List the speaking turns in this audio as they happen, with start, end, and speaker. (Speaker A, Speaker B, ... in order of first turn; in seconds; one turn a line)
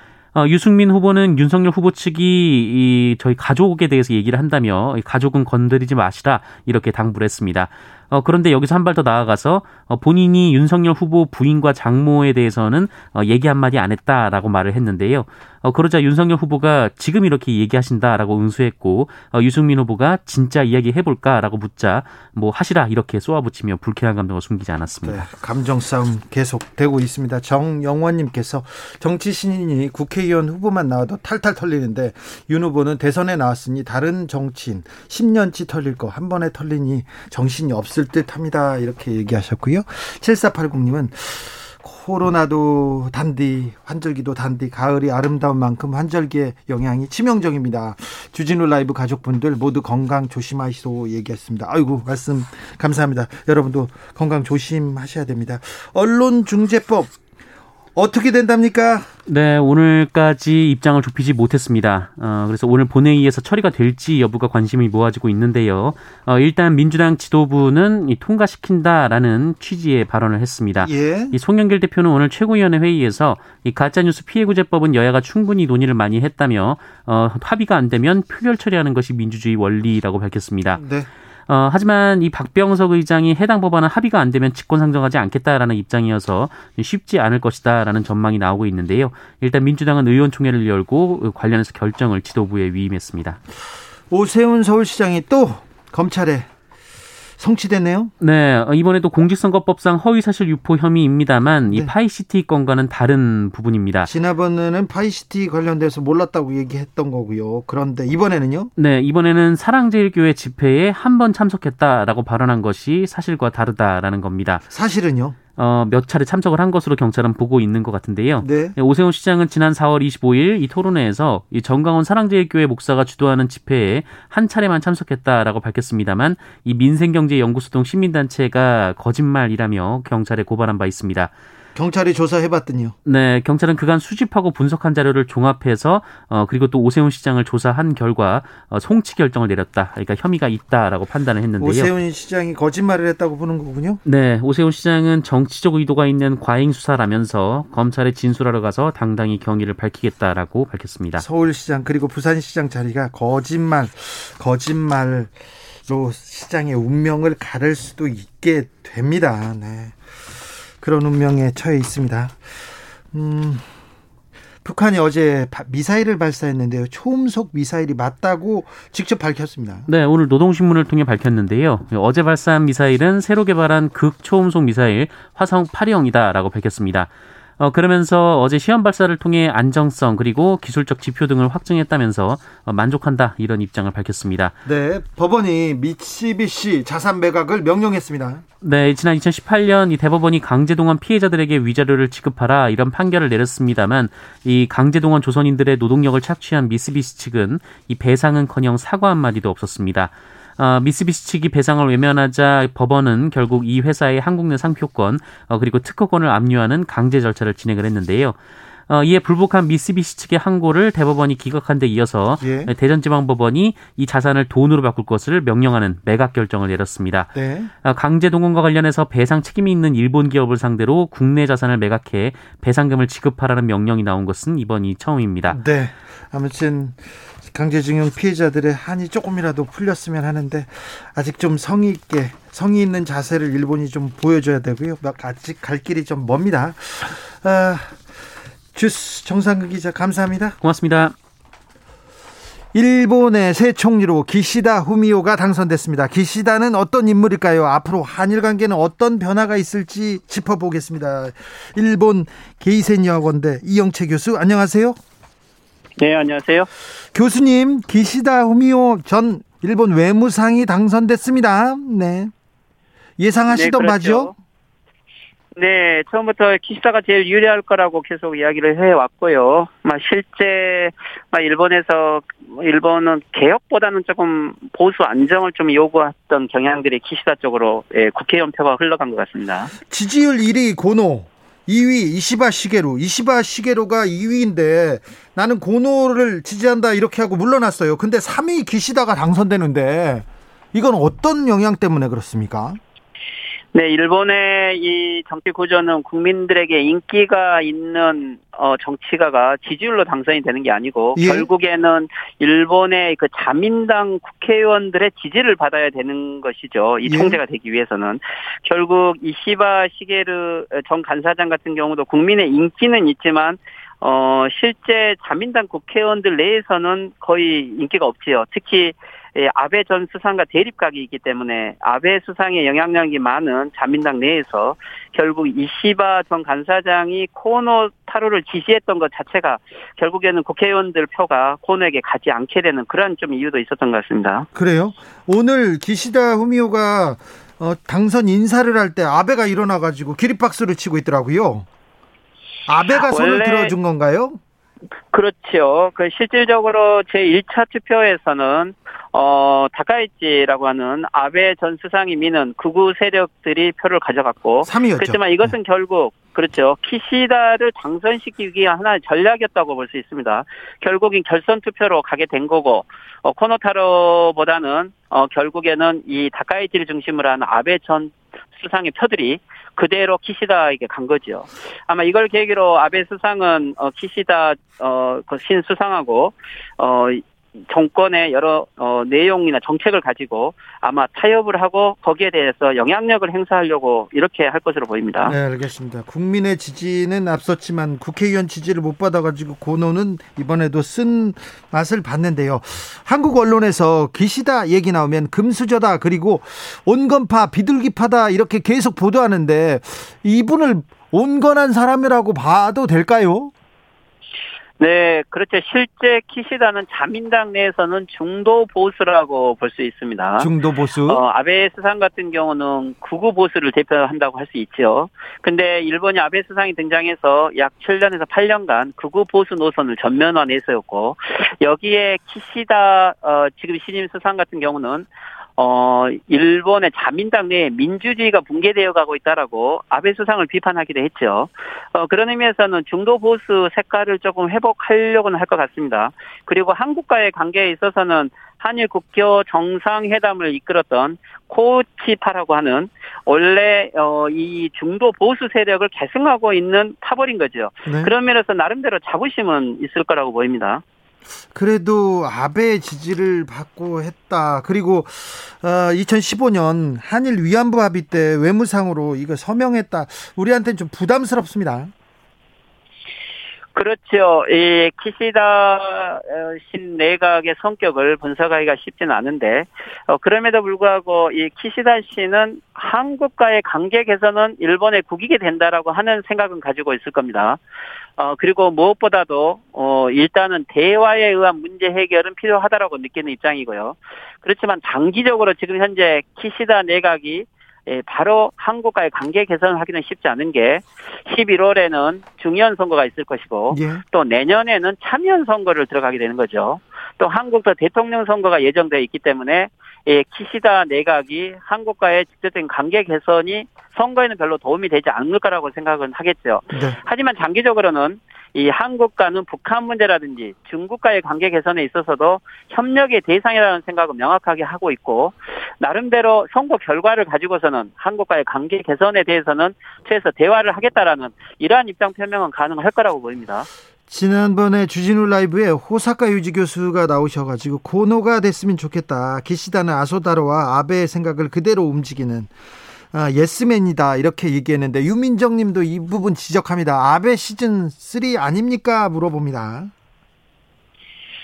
Speaker A: 0.3-25.2
Speaker B: 25.0-57.1
Speaker B: 58.0-59.1
Speaker A: 59.3-80.8
Speaker B: 70.8-71.4
Speaker B: 80.7-81.1
Speaker A: 81.5-93.4
Speaker B: 94.1-96.5
Speaker B: 97.4-98.1
Speaker A: 98.2-104.1
Speaker B: 104.1-108.7
Speaker A: 108.8-114.7
Speaker B: 114.7-115.4
Speaker A: 115.6-131.3
Speaker B: 118.4-118.8
Speaker B: 131.8-132.9
Speaker A: 133.0-141.9
Speaker B: 141.6-144.0
Speaker A: 144.0-151.2
Speaker B: 151.2-155.3
Speaker B: 155.9-162.4
Speaker B: 163.1-163.7
Speaker B: 164.6-169.9
Speaker A: 169.9-184.6
Speaker B: 184.6-188.4
Speaker A: 188.6-208.4
Speaker A: 208.9-225.6
Speaker B: 212.4-212.7
Speaker B: 217.3-217.7
Speaker B: 225.5-238.0
Speaker B: 238.7-240.6
Speaker A: 240.6-241.1
Speaker B: 242.7-255.0
Speaker C: 256.0-256.7
Speaker B: 257.1-262.3
Speaker B: 263.2-264.3
Speaker C: 263.5-264.3
Speaker C: 265.5-279.7
Speaker B: 279.9-292.8
Speaker C: 293.7-334.5
Speaker B: 301.1-301.5
Speaker B: 307.1-307.4
Speaker B: 334.5-341.7
Speaker B: 342.7-344.4
Speaker C: 343.0-343.7
Speaker C: 345.1-385.4
Speaker B: 354.6-355.6
Speaker B: 385.2-403.5
Speaker C: 404.8-410.5
Speaker B: 410.4-411.2
Speaker C: 411.1-450.8
Speaker B: 447.9-448.1
Speaker B: 451.5-461.9
Speaker C: 463.7-477.6
Speaker C: 478.2-523.7
Speaker B: 493.7-494.0
Speaker B: 524.1-532.5
Speaker B: 533.1-539.9